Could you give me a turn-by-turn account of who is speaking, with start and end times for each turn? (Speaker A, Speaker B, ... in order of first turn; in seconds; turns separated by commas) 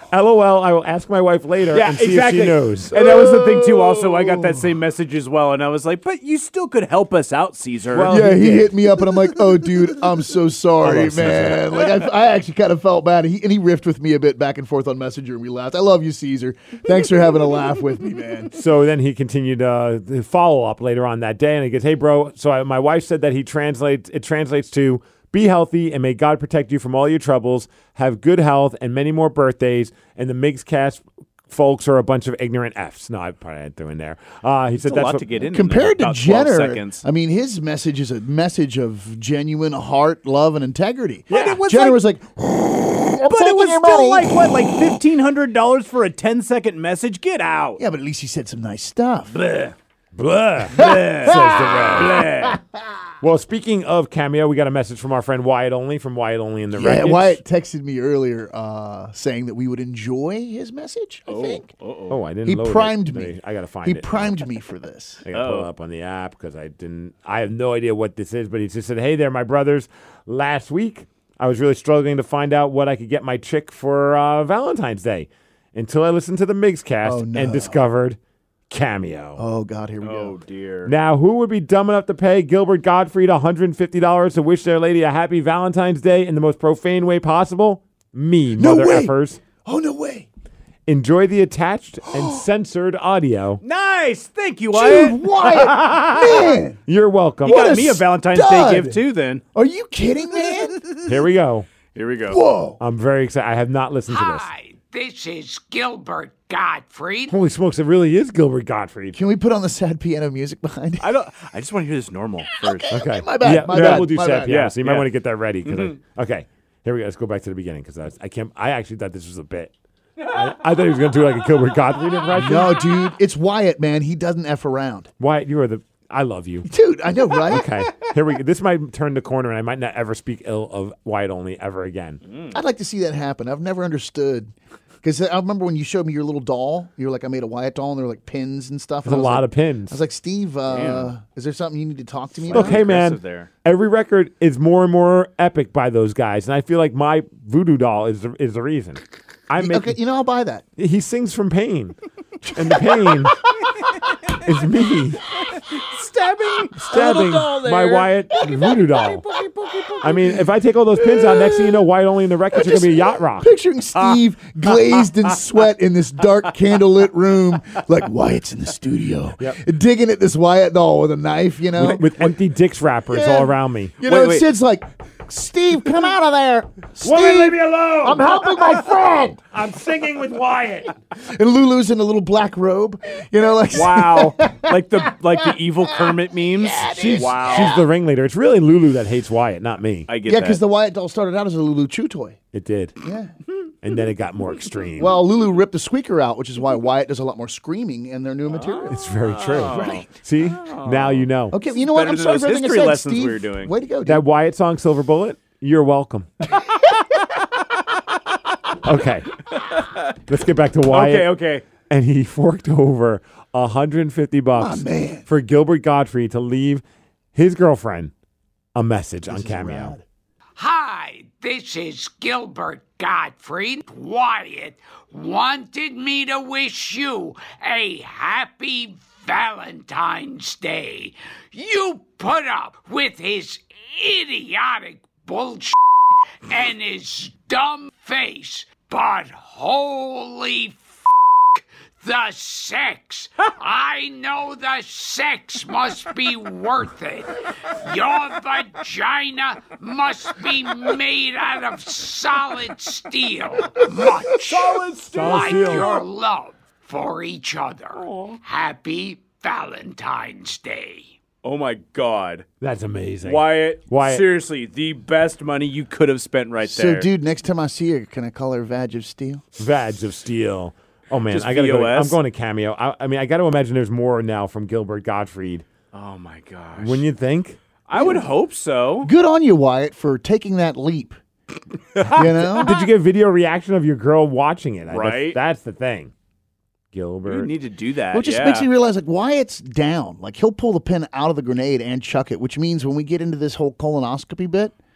Speaker A: 0.1-3.0, Speaker B: 1.7-8.5, Speaker C: 2.9-4.5, Speaker A: 7.9-8.6, Speaker C: 8.1-18.6, Speaker A: 10.8-11.7, Speaker A: 18.6-35.3, Speaker B: 34.8-37.0, Speaker C: 35.5-44.9, Speaker B: 41.3-42.0, Speaker B: 43.3-47.8, Speaker C: 47.8-49.3, Speaker B: 49.3-49.8, Speaker A: 50.2-52.3, Speaker B: 50.7-52.6, Speaker C: 50.8-52.8, Speaker A: 53.2-57.4, Speaker C: 56.7-61.7, Speaker B: 61.3-62.2, Speaker A: 62.1-64.3, Speaker C: 62.5-63.3, Speaker C: 63.8-65.2, Speaker A: 65.3-78.2, Speaker B: 65.3-65.7, Speaker C: 77.0-77.8, Speaker A: 78.7-79.4, Speaker C: 79.4-80.4, Speaker B: 80.0-80.9, Speaker A: 80.9-89.4, Speaker C: 88.6-90.3, Speaker A: 90.9-93.6, Speaker B: 93.6-95.5, Speaker C: 94.7-96.8, Speaker A: 95.5-97.8, Speaker C: 97.4-99.0, Speaker B: 97.4-99.4, Speaker C: 99.5-100.9, Speaker A: 101.0-101.7, Speaker B: 101.9-102.4, Speaker C: 102.3-102.8, Speaker A: 102.8-104.5, Speaker D: 104.1-107.3, Speaker A: 107.3-109.2, Speaker C: 109.1-111.1, Speaker B: 111.0-113.0, Speaker C: 112.6-114.6, Speaker A: 112.9-119.7, Speaker B: 113.6-115.1, Speaker B: 115.6-116.0, Speaker A: 120.3-122.9, Speaker C: 122.3-125.1, Speaker A: 125.2-126.7, Speaker C: 126.7-127.7, Speaker A: 127.5-132.2, Speaker B: 132.3-132.6, Speaker C: 132.5-134.5, Speaker C: 135.0-142.8, Speaker A: 139.1-140.0, Speaker B: 140.7-141.1, Speaker B: 142.5-143.5, Speaker A: 142.5-150.0, Speaker C: 149.6-150.7, Speaker A: 150.8-153.4, Speaker A: 154.4-155.2, Speaker B: 155.5-160.4, Speaker A: 156.8-159.2, Speaker C: 158.4-158.8, Speaker A: 160.0-163.5, Speaker C: 161.0-161.8, Speaker C: 162.5-172.3, Speaker B: 164.0-165.1, Speaker A: 171.8-174.0, Speaker C: 173.1-179.4, Speaker B: 174.0-174.5, Speaker A: 177.0-178.7, Speaker A: 179.5-180.9, Speaker C: 181.2-187.8, Speaker B: 183.7-187.8, Speaker A: 186.9-190.1, Speaker B: 190.1-190.6, Speaker C: 190.2-192.4, Speaker A: 192.5-192.9, Speaker C: 193.0-193.3, Speaker A: 193.8-195.2, Speaker C: 195.0-199.0, Speaker B: 198.5-201.3, Speaker A: 198.9-201.6, Speaker C: 199.6-200.1, Speaker C: 201.5-204.2, Speaker B: 201.8-203.7, Speaker A: 204.1-206.3, Speaker A: 208.8-209.3, Speaker B: 209.6-210.1, Speaker A: 210.3-216.8, Speaker B: 210.9-211.7, Speaker C: 214.6-215.3, Speaker A: 217.3-218.1, Speaker A: 218.8-220.0, Speaker C: 219.3-220.0, Speaker D: 220.6-235.8, Speaker D: 236.5-241.0, Speaker D: 241.6-261.1, Speaker B: 254.4-256.0, Speaker A: 255.1-255.9, Speaker B: 258.0-258.4, Speaker B: 261.4-262.5, Speaker A: 262.6-264.2, Speaker B: 263.2-267.1, Speaker C: 266.6-269.4, Speaker A: 269.6-275.6, Speaker B: 271.3-272.2, Speaker B: 275.9-277.1, Speaker A: 276.8-277.6, Speaker B: 277.9-279.1, Speaker C: 277.9-278.3, Speaker C: 279.0-281.2, Speaker B: 282.0-282.7, Speaker C: 282.1-282.7, Speaker A: 282.6-286.1, Speaker B: 284.9-285.4, Speaker A: 286.9-287.5, Speaker B: 287.3-288.7, Speaker C: 288.1-294.7